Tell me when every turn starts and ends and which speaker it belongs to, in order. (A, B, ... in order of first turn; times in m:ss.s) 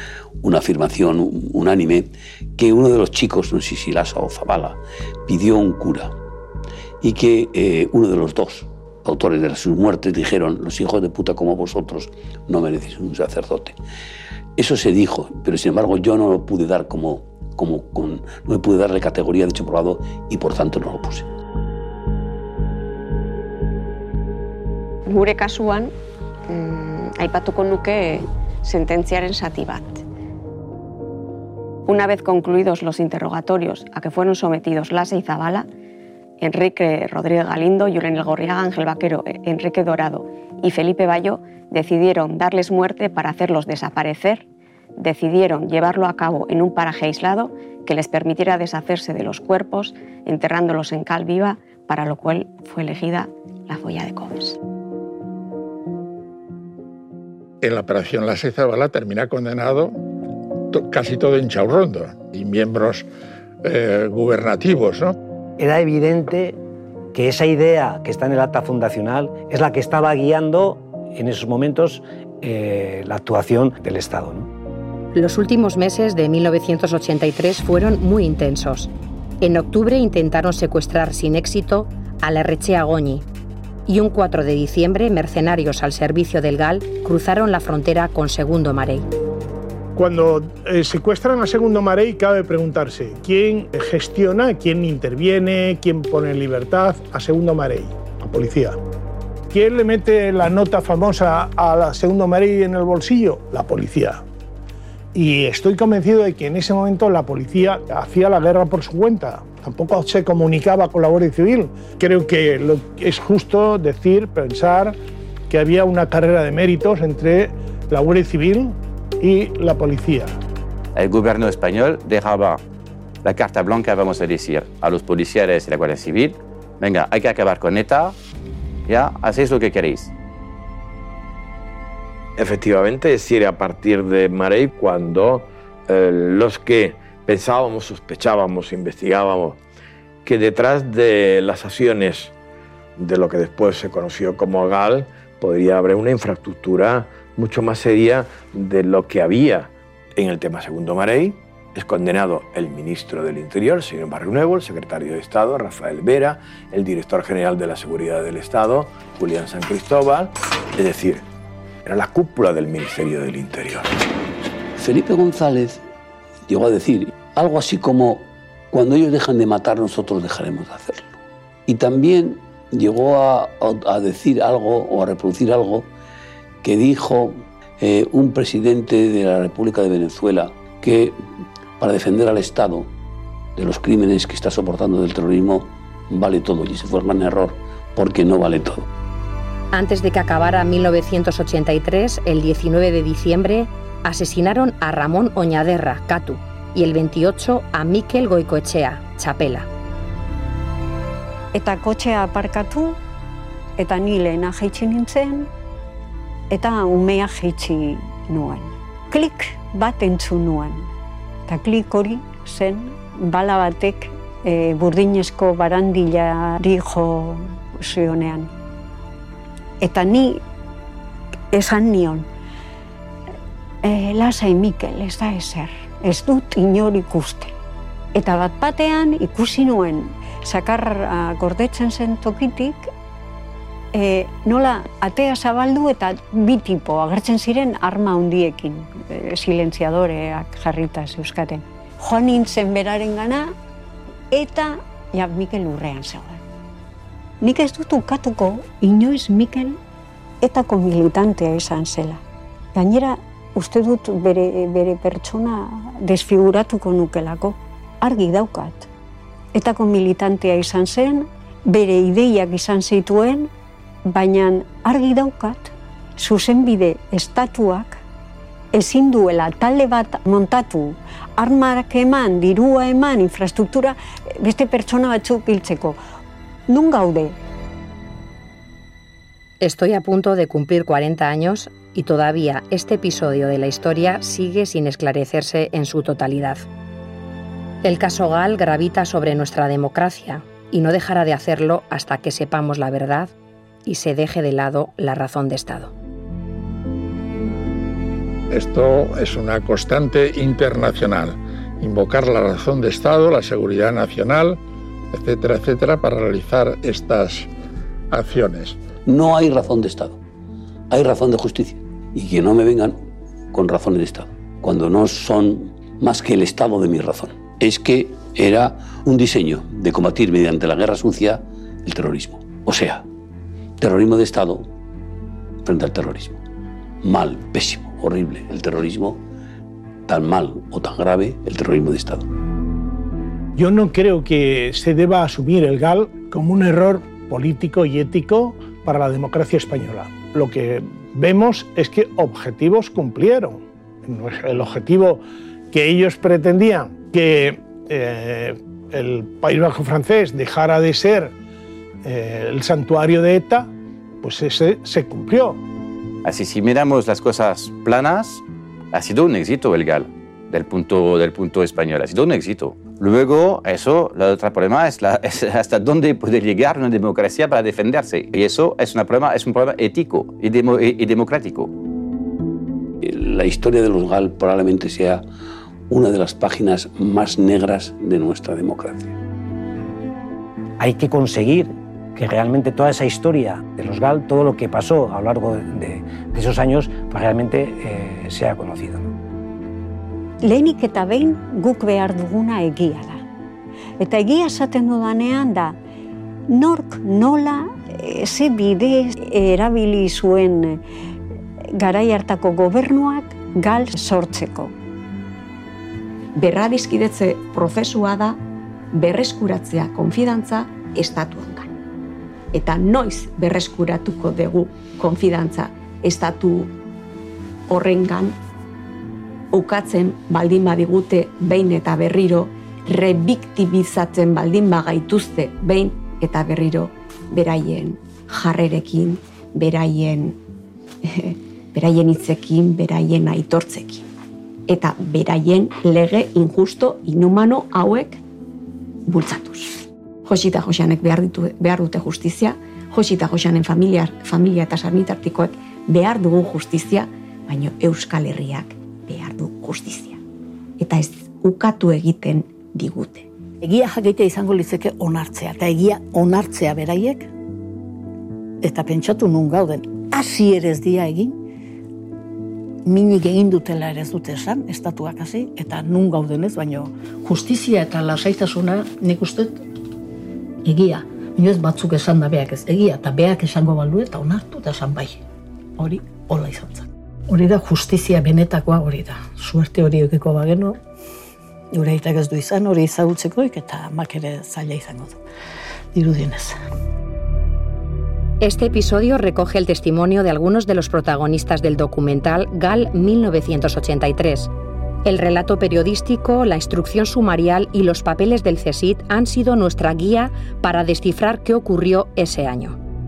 0:00.4-0:06.1 A
0:07.0-0:13.8 A
0:14.6-0:21.3 A
0:25.0-0:25.9 B
0:26.5-0:30.0 B
0:31.8-0:35.7 B
0:36.4-0:44.4 B
0:45.0-0:54.6 B
0:57.6-1:00.0 C
1:00.7-1:03.1 C
1:03.6-1:05.2 C
1:05.6-1:06.6 D
1:07.1-1:14.5 D
1:15.1-1:23.2 E
1:23.9-1:29.1 E
1:29.9-1:38.8 F
1:39.5-1:44.2 F
1:45.1-1:55.0 F
1:55.5-2:00.3 F
2:00.9-2:02.6 G
2:03.2-2:08.2 G
2:08.8-2:10.1 G
2:12.4-2:19.6 H
2:20.2-2:22.3 H
2:23.0-2:41.2 H
2:41.8-2:43.9 H
2:44.8-2:45.8 A
2:46.5-2:55.9 A
2:56.6-3:01.2 A
3:01.8-3:02.9 A
3:03.6-3:08.9 A
3:09.7-3:19.7 E
3:21.5-3:23.0 I
3:23.8-3:25.5 I
3:26.5-3:30.9 I
3:31.5-3:38.5 I
3:39.8-3:40.4 I
3:41.5-3:42.2 I
3:43.8-3:47.5 I
3:48.1-3:52.9 I
3:53.9-4:03.5 I
4:04.3-4:06.4 I
4:07.4-4:09.8 I
4:10.4-4:12.2 I
4:12.7-4:18.9 I
4:19.5-4:23.5 I
4:24.0-4:28.0 I
4:28.7-4:36.0 I
4:36.7-4:37.4 I
4:39.6-4:46.6 E
4:47.8-4:53.3 E
4:53.8-4:55.9 E
4:58.5-5:04.6 C
5:05.1-5:07.5 C
5:08.1-5:08.8 C
5:09.0-5:10.2 A
5:10.9-5:13.0 A
5:13.5-5:23.0 A
5:23.8-5:24.7 A
5:25.6-5:26.4 A
5:27.0-5:29.2 A
5:30.1-5:32.3 A
5:33.6-5:51.3 F
5:52.0-5:53.7 F
5:54.2-5:55.6 F
5:56.2-6:11.7 G
6:13.0-6:15.2 A
6:15.9-6:19.2 A
6:20.8-6:29.1 D
6:30.4-6:33.2 I
6:34.0-6:35.8 I
6:36.5-6:40.8 I
6:41.8-6:44.7 I
6:46.4-6:48.4 B
6:48.9-6:51.7 B
6:52.5-6:56.7 B
6:57.7-6:58.4 B
6:59.5-7:10.4 B
7:11.0-7:14.0 B
7:14.7-7:18.2 B
7:19.0-7:30.2 B
7:30.8-7:33.3 B
7:33.6-7:37.3 J
7:38.6-7:41.3 J
7:42.8-7:49.6 J
7:50.6-7:55.2 J
7:55.8-8:00.8 J
8:01.7-8:05.2 J
8:05.9-8:06.6 J
8:08.4-8:14.5 E
8:15.0-8:22.8 E